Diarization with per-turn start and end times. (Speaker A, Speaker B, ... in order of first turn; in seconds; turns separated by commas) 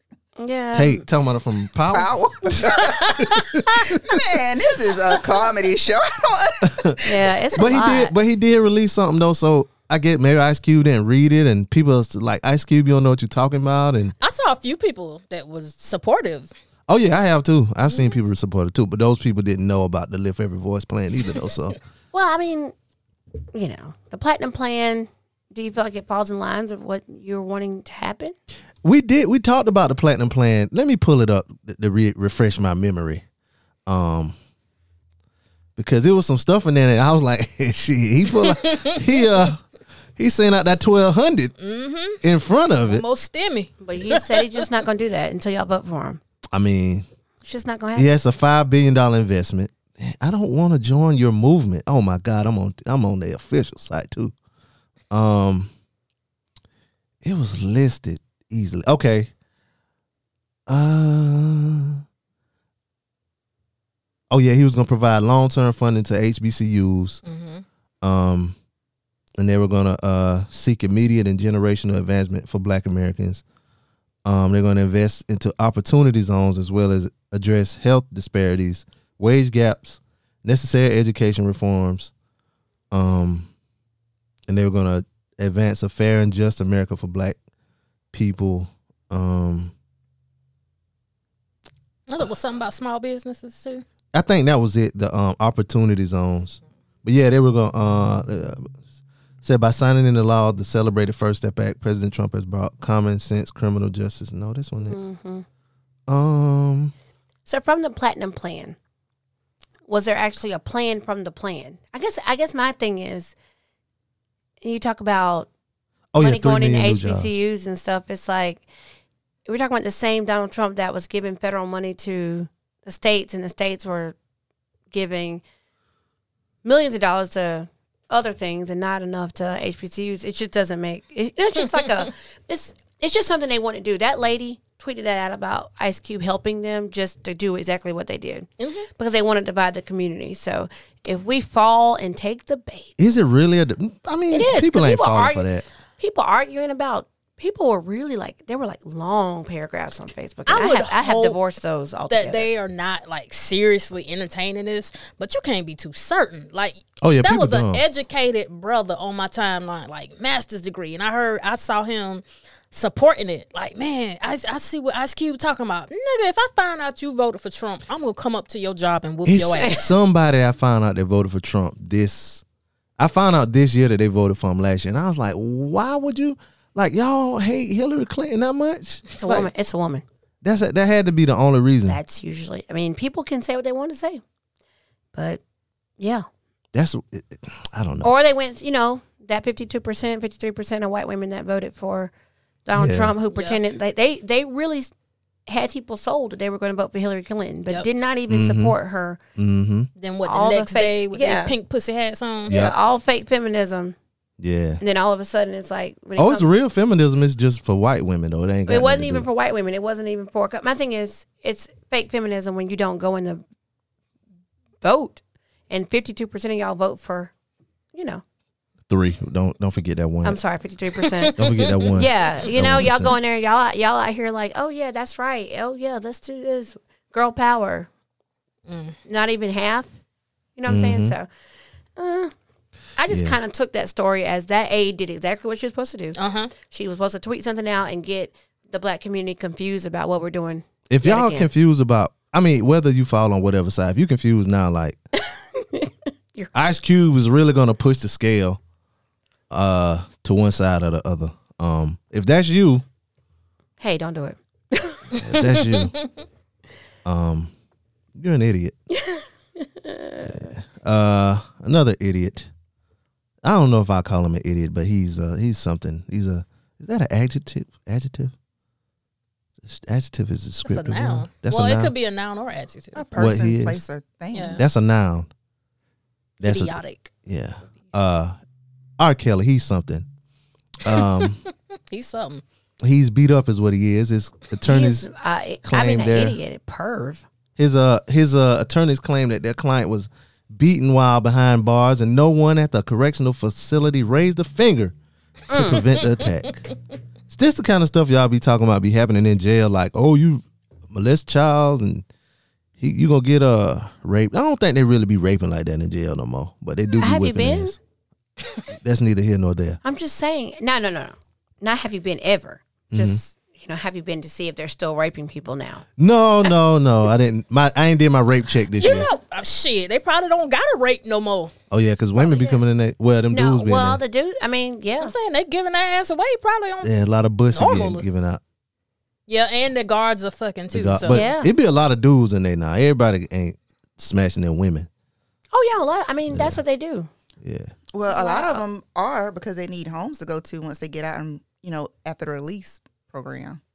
Speaker A: 0.4-1.0, Speaker B: 0.7-2.1, Speaker C: 1.9-3.2, Speaker B: 3.1-4.0, Speaker C: 4.0-7.1, Speaker B: 6.6-7.0, Speaker A: 7.0-8.2, Speaker B: 7.5-14.1, Speaker D: 14.2-16.5, Speaker B: 16.9-21.8, Speaker A: 22.1-22.7, Speaker A: 23.5-28.4, Speaker B: 28.8-33.2, Speaker B: 33.9-34.4, Speaker B: 35.8-39.6, Speaker D: 38.5-39.2, Speaker B: 40.2-41.5, Speaker D: 41.6-42.2, Speaker B: 42.2-43.0, Speaker D: 42.9-44.6, Speaker A: 43.8-46.2, Speaker B: 46.5-47.1, Speaker A: 47.4-48.1, Speaker B: 48.0-54.3, Speaker B: 55.1-55.7, Speaker B: 57.2-59.3, Speaker B: 60.7-62.0, Speaker B: 64.3-67.2, Speaker D: 67.2-67.6, Speaker B: 68.0-68.5, Speaker B: 69.4-73.4, Speaker B: 74.2-82.1, Speaker B: 82.9-83.5, Speaker B: 84.5-87.4, Speaker B: 88.1-89.7, Speaker D: 92.1-93.8, Speaker B: 94.1-98.7, Speaker B: 99.4-105.0, Speaker A: 104.8-105.5, Speaker B: 106.1-106.9, Speaker A: 107.5-108.8, Speaker A: 109.9-113.3, Speaker A: 114.6-115.5, Speaker B: 116.1-117.4, Speaker A: 116.2-118.7, Speaker A: 119.5-124.2, Speaker A: 124.9-125.4, Speaker A: 126.6-143.0, Speaker D: 138.6-138.9, Speaker B: 143.0-145.7, Speaker A: 144.3-152.5, Speaker D: 150.5-151.4, Speaker D: 152.1-169.9, Speaker B: 157.0-157.8, Speaker B: 169.3-172.4, Speaker A: 169.6-169.9, Speaker B: 173.0-179.5, Speaker A: 179.2-180.0, Speaker B: 180.4-182.0, Speaker A: 181.9-184.2, Speaker A: 185.1-185.4, Speaker A: 186.0-186.3, Speaker B: 186.7-188.1, Speaker A: 188.0-192.1, Speaker A: 192.7-194.9, Speaker B: 192.8-193.1, Speaker D: 193.3-193.6, Speaker A: 195.5-199.2, Speaker B: 198.3-198.8, Speaker B: 199.4-199.9, Speaker D: 200.0-202.5, Speaker A: 200.2-201.5, Speaker A: 202.5-204.0, Speaker B: 202.5-202.8, Speaker B: 204.4-204.8, Speaker A: 204.8-206.5, Speaker B: 206.2-209.3, Speaker A: 208.7-213.4, Speaker A: 214.8-217.3, Speaker A: 217.9-218.2, Speaker B: 218.9-220.4, Speaker A: 220.2-221.4, Speaker D: 221.0-222.5, Speaker B: 221.4-223.1, Speaker A: 221.9-227.9, Speaker D: 228.7-229.0, Speaker A: 229.1-229.9, Speaker A: 230.6-231.3, Speaker B: 230.7-231.2, Speaker A: 232.0-232.3, Speaker A: 233.0-241.5, Speaker B: 233.1-233.4, Speaker D: 236.2-236.5, Speaker B: 240.9-245.0, Speaker A: 245.2-246.5, Speaker B: 246.5-248.6, Speaker B: 249.5-252.8, Speaker A: 253.8-255.1, Speaker B: 255.2-255.9, Speaker B: 257.1-257.5, Speaker B: 258.2-258.8, Speaker A: 258.9-260.4, Speaker B: 260.2-262.5, Speaker B: 263.4-268.3, Speaker B: 269.6-271.9, Speaker D: 270.6-273.2, Speaker C: 272.9-274.6, Speaker B: 273.2-273.8, Speaker D: 274.3-274.6, Speaker B: 274.6-275.3, Speaker D: 276.4-277.1, Speaker B: 276.4-278.4, Speaker B: 279.0-280.1, Speaker B: 280.8-281.4, Speaker D: 281.0-281.3, Speaker D: 281.9-282.4, Speaker B: 282.8-285.1, Speaker A: 284.6-287.2, Speaker B: 285.6-286.4, Speaker B: 287.6-294.9, Speaker A: 295.5-295.8, Speaker B: 295.5-296.7, Speaker B: 297.3-302.1, Speaker B: 302.8-307.8, Speaker A: 307.0-307.8, Speaker B: 308.8-309.8, Speaker A: 309.8-315.8, Speaker B: 312.9-313.2, Speaker B: 316.0-319.1, Speaker D: 318.8-321.5, Speaker B: 321.7-324.0, Speaker A: 322.2-322.6, Speaker A: 323.3-325.1, Speaker D: 325.0-326.9, Speaker B: 326.8-328.4, Speaker D: 327.5-328.1, Speaker D: 329.3-331.2, Speaker B: 330.7-334.9, Speaker A: 331.1-331.5, Speaker A: 335.5-337.1, Speaker B: 336.3-336.6, Speaker B: 337.4-337.7, Speaker C: 337.9-343.6, Speaker A: 338.1-338.6